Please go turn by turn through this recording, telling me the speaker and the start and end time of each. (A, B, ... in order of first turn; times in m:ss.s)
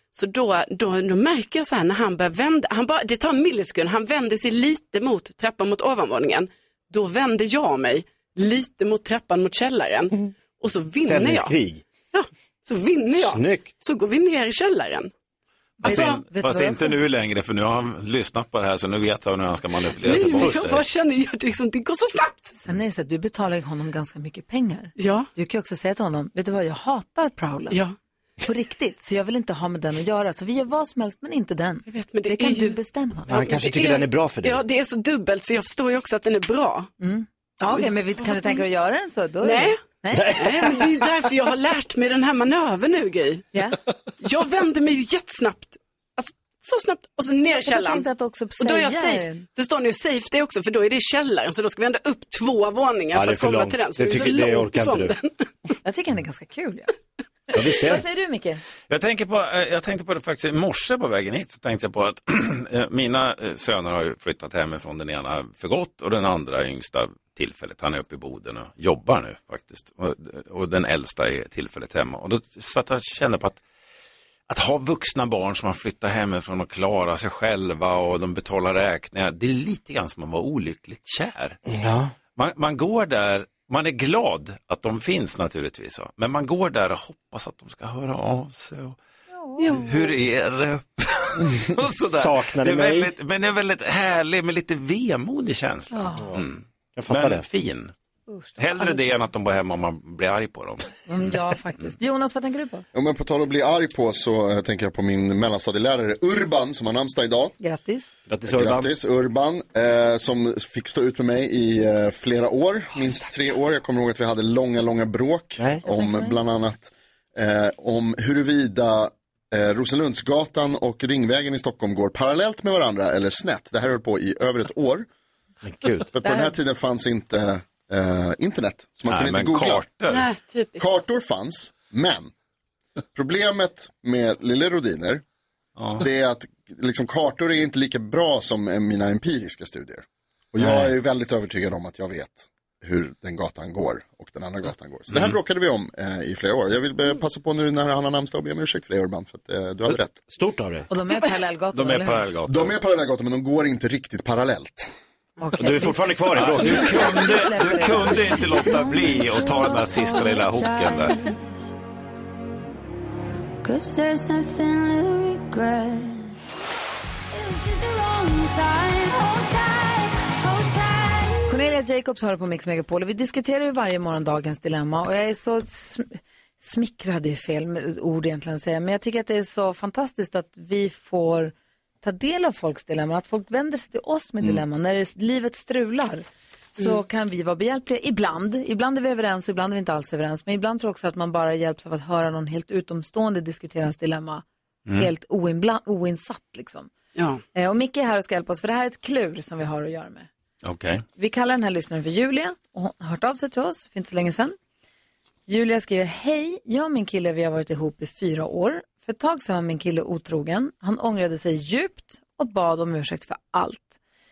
0:00.1-0:11.5 A
0:11.0-0:11.8 B
0:12.1-0:15.1 A
0:13.1-0:13.7 B
0:15.8-0:20.8 C
0:15.8-0:16.9 D
0:15.9-0:16.2 B
0:15.9-0:16.2 A
0:20.0-0:22.6 A
0:20.0-0:20.8 B
0:22.6-0:27.8 D
0:25.0-0:25.3 A
0:27.7-0:27.9 A
0:28.4-0:33.5 D
0:31.9-0:32.8 A
0:33.3-0:34.6 B
0:33.3-0:36.9 A
0:37.0-0:40.3 D
0:37.7-0:38.6 A
0:39.4-0:43.5 A
0:40.1-0:41.0 B
0:44.2-0:48.0 A
0:47.6-0:49.4 D
0:48.6-0:55.3 A
0:53.1-0:55.1 B
0:55.8-0:56.9 D
0:57.5-0:58.6 D
0:57.5-0:58.0 B
0:58.9-1:13.6 C
1:14.5-1:21.6 C
1:21.7-1:22.1 B
1:22.3-1:29.0 C
1:29.4-1:29.7 D
1:29.6-1:30.0 A
1:29.7-1:37.9 C
1:32.1-1:33.1 B
1:35.9-1:36.3 D
1:36.2-1:36.4 B
1:37.0-1:37.5 B
1:38.3-1:39.0 D
1:38.6-1:40.9 C
1:41.0-1:42.8 D
1:42.9-1:47.5 E
1:47.6-1:48.1 D
1:48.3-1:48.9 B
1:48.4-2:05.1 E
1:55.6-1:55.8 B
1:55.9-1:56.4 D
2:05.6-2:06.1 B
2:06.1-2:09.8 E
2:06.2-2:06.5 D
2:09.1-2:10.3 C
2:10.1-2:10.9 A
2:10.8-2:12.3 E
2:13.1-2:15.2 E
2:15.8-2:16.0 C
2:16.0-2:30.2 E
2:20.6-2:20.9 B
2:25.1-2:25.4 C
2:30.3-2:30.9 B
2:30.9-2:32.2 D
2:31.7-2:32.7 C
2:32.4-2:34.9 E
2:35.4-2:39.7 D
2:35.6-2:37.2 B
2:36.3-2:41.2 C
2:39.7-2:41.4 F
2:43.6-2:46.3 F
2:47.3-2:51.5 F
2:51.5-3:14.4 D
3:15.0-3:16.9 D
3:17.1-3:17.4 A
3:17.5-3:20.3 D
3:20.6-3:21.0 C
3:21.2-3:24.6 D
3:25.5-3:34.0 D